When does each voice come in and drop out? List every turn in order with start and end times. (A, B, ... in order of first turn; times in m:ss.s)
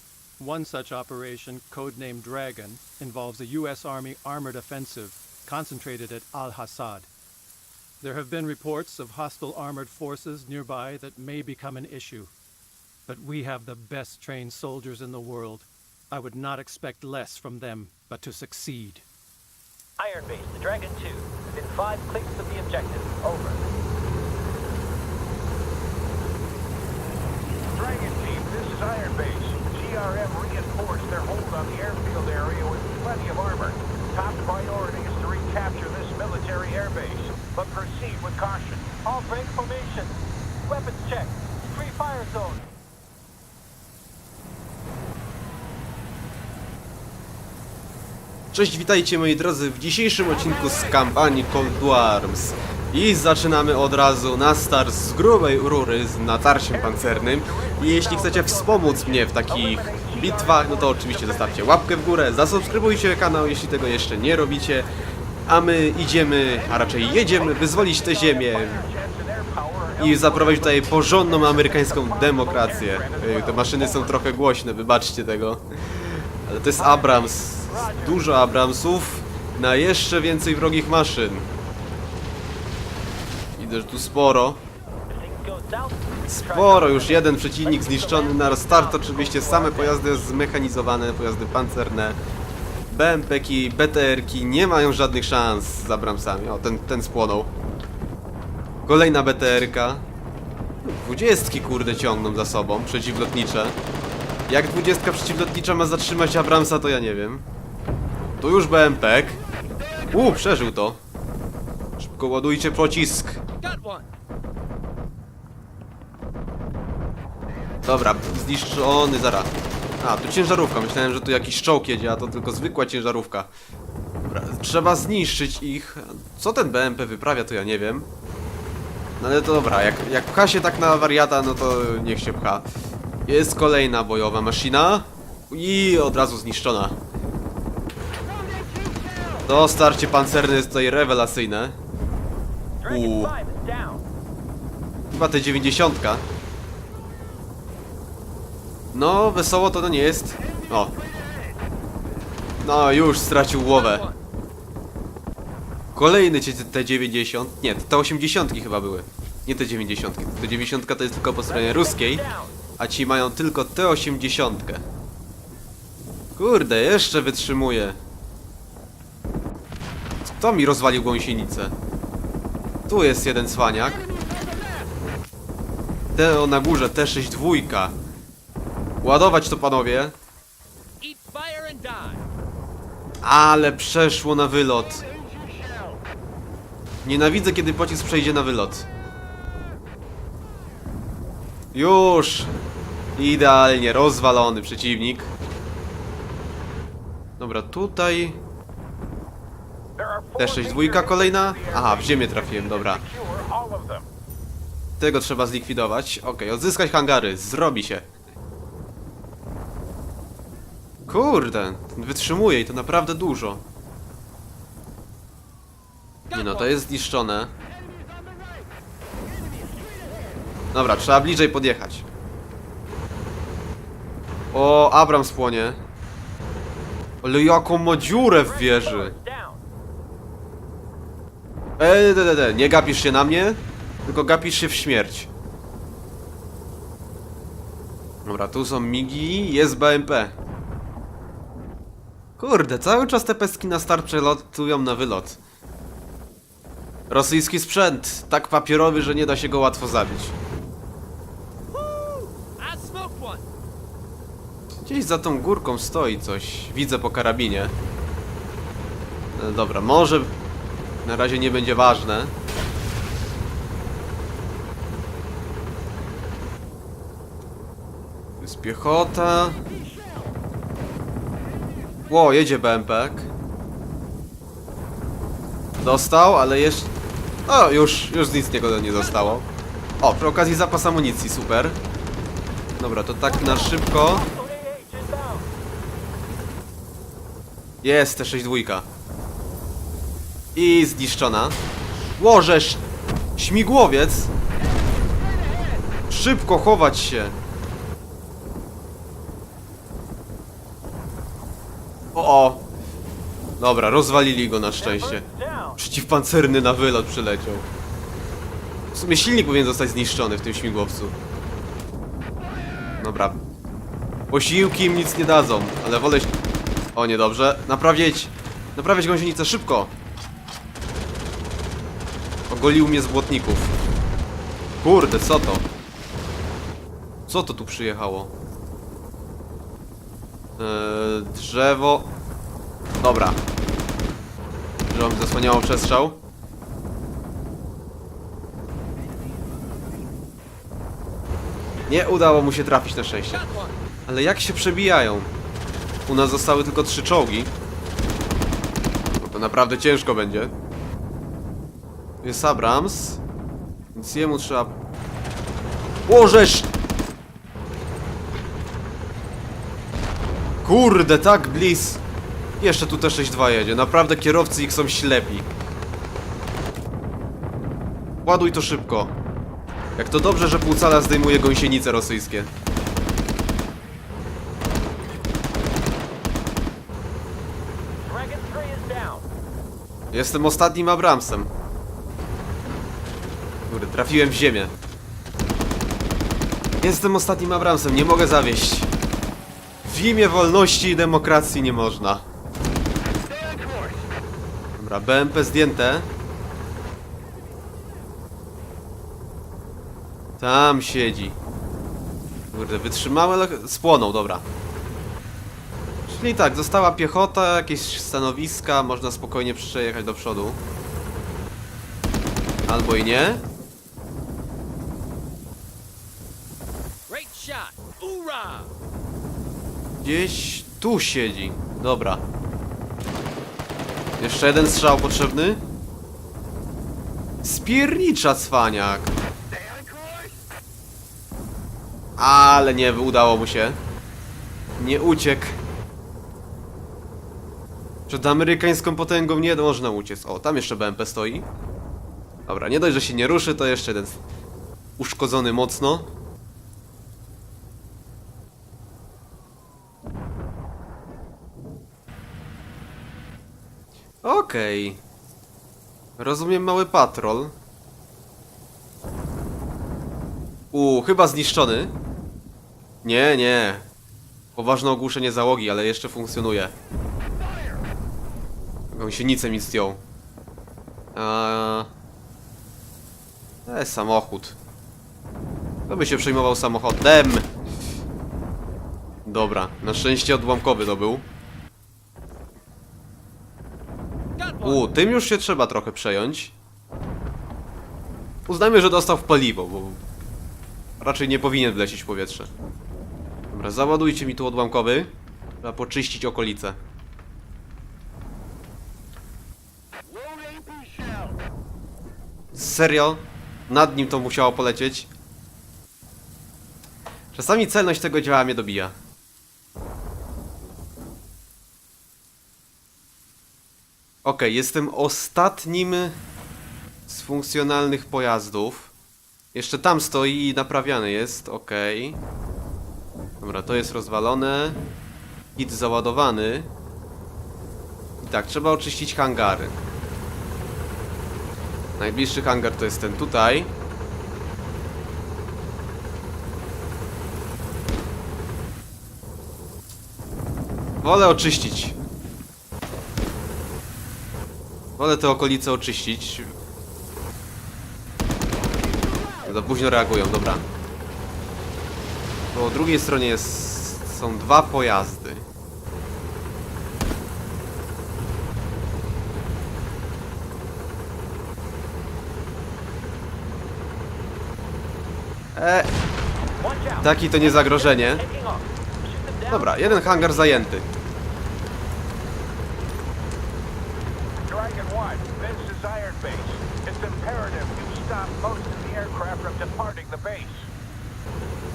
0:00.4-0:07.1 A
0:08.0-0:12.3 A
0:13.1-0:19.0 A
0:20.0-0:23.6 B
0:27.7-0:39.0 C
0:39.0-0:40.2 B
0:40.7-0:42.6 B
0:48.5-1:04.9 D
0:56.9-0:59.2 B
0:59.5-1:01.7 C
1:05.5-1:08.8 D
1:07.0-1:14.0 C
1:10.0-1:21.5 D
1:16.8-1:18.2 B
1:23.6-1:24.6 D
1:25.1-1:30.1 B
1:26.2-1:32.2 D
1:32.9-1:37.5 D
1:38.8-1:40.0 D
1:40.8-1:43.8 D
1:44.5-1:47.4 D
1:48.4-1:49.4 D
1:50.1-1:51.0 D
1:52.0-1:53.4 D
1:53.7-1:54.0 B
1:57.8-2:03.5 D
2:04.2-2:08.1 D
2:09.2-2:12.7 D
2:13.3-2:17.0 D
2:19.5-2:21.8 D
2:22.8-2:24.0 B
2:22.9-2:23.3 D
2:25.1-2:26.2 D
2:28.9-2:30.9 D
2:32.6-2:34.1 D
2:36.0-2:42.2 D
2:41.5-2:42.6 B
2:42.8-2:44.8 D
2:46.4-2:48.0 D
2:50.2-2:51.7 D
2:52.9-2:54.0 D
2:56.2-2:58.0 D
2:59.0-3:00.1 D
3:01.0-3:02.2 B
3:03.2-3:05.0 D
3:07.0-3:08.9 D
3:11.7-3:12.5 D
3:13.2-3:15.3 D
3:17.4-3:18.4 D
3:20.0-3:24.0 C
3:20.4-3:23.0 D
3:25.0-3:28.1 D
3:31.1-3:33.6 D
3:36.3-3:37.5 D
3:40.7-3:42.0 D
3:44.5-3:45.8 D
3:47.2-3:49.2 D
3:47.9-3:49.6 B
3:51.8-3:55.3 D
3:58.2-4:00.3 D
4:02.4-4:05.4 D
4:07.1-4:10.4 D
4:11.7-4:13.4 B
4:14.8-4:17.7 D
4:19.4-4:20.3 D
4:21.0-4:22.3 D
4:28.4-4:29.6 D
4:32.1-4:33.3 D
4:35.8-4:36.9 D
4:37.5-4:39.5 D
4:40.0-4:41.8 D
4:42.8-4:44.3 D
4:43.3-4:45.5 B
4:47.8-4:48.9 D
4:50.6-4:51.6 D
4:52.2-4:52.8 D
4:53.4-4:54.3 D
4:56.1-4:57.4 D
5:02.1-5:02.6 D
5:03.6-5:07.7 D
5:04.8-5:05.8 B
5:08.9-5:11.2 D
5:13.0-5:13.4 D
5:14.3-5:16.3 D
5:17.0-5:19.9 D
5:22.5-5:23.7 D
5:24.8-5:25.7 D
5:27.3-5:28.3 D
5:30.6-5:32.1 D
5:33.0-5:33.4 D
5:34.9-5:36.2 D
5:41.9-5:43.5 D
5:44.1-5:45.3 D
5:46.1-5:47.5 D
5:49.2-5:50.5 D
5:52.2-5:53.2 D
5:54.0-5:54.8 D
5:56.1-5:56.7 D
6:00.6-6:02.0 D
6:02.6-6:05.5 D
6:08.2-6:09.1 D
6:10.0-6:12.5 D
6:18.0-6:19.3 B
6:20.1-6:21.5 D
6:23.7-6:24.7 D
6:26.8-6:28.9 D
6:29.8-6:32.2 D
6:34.8-6:36.1 D
6:40.4-6:41.4 D
6:42.5-6:44.4 D
6:46.1-6:50.6 D
6:52.7-6:53.4 D
6:57.1-6:58.7 B
7:00.0-7:02.2 D
7:04.2-7:05.6 D
7:07.4-7:09.1 D
7:12.2-7:13.8 D
7:14.8-7:15.6 D
7:18.1-7:21.5 D
7:22.5-7:24.2 D
7:25.0-7:26.1 D
7:34.2-7:35.0 D
7:36.2-7:37.5 D
7:40.7-7:41.9 D
7:43.0-7:43.9 D
7:44.6-7:46.7 D
7:48.9-7:50.0 D
7:51.2-7:51.9 D
7:53.7-7:54.6 D
7:55.9-7:57.5 D
7:59.2-8:01.3 D
8:04.6-8:06.5 D
8:08.5-8:10.0 D
8:11.0-8:12.5 D
8:13.5-8:15.1 D
8:15.6-8:16.8 D
8:22.5-8:25.1 D
8:27.3-8:28.9 D
8:34.2-8:36.2 D
8:37.1-8:38.9 D
8:39.5-8:42.2 D
8:43.4-8:44.8 D
8:45.6-8:46.7 D
8:48.2-8:49.7 D
8:52.0-8:53.7 D
9:01.0-9:02.0 D
9:05.0-9:06.5 D
9:09.4-9:10.6 D
9:12.5-9:15.4 D
9:25.6-9:25.9 D
9:26.6-9:30.6 B
9:27.0-9:28.2 D
9:29.5-9:30.9 D
9:34.4-9:40.7 C